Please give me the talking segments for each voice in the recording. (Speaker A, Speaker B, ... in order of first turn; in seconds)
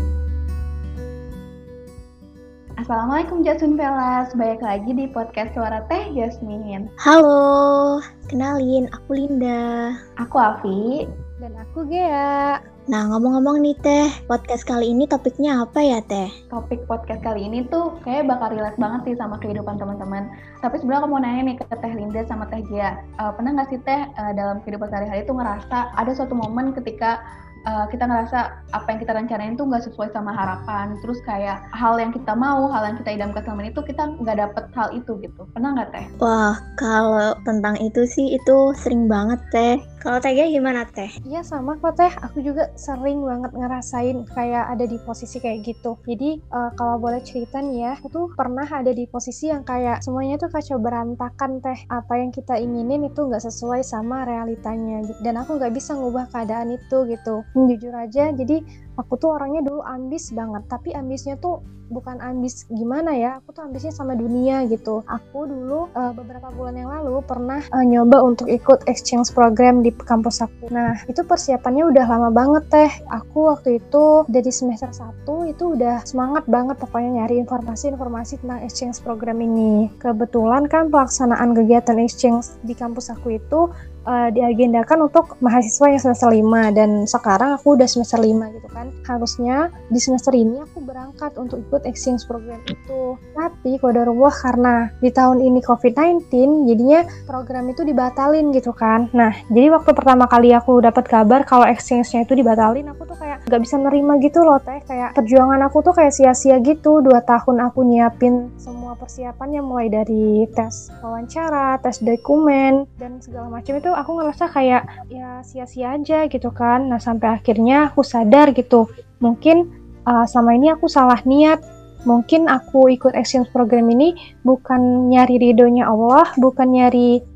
Speaker A: 2.8-6.9, 10.2-10.9, 16.5-27.1, 27.7-36.1
Speaker B: 7.0-9.6, 12.9-16.3, 36.2-41.1
Speaker C: 11.4-12.5, 41.3-119.6, 120.1-121.6, 122.1-127.1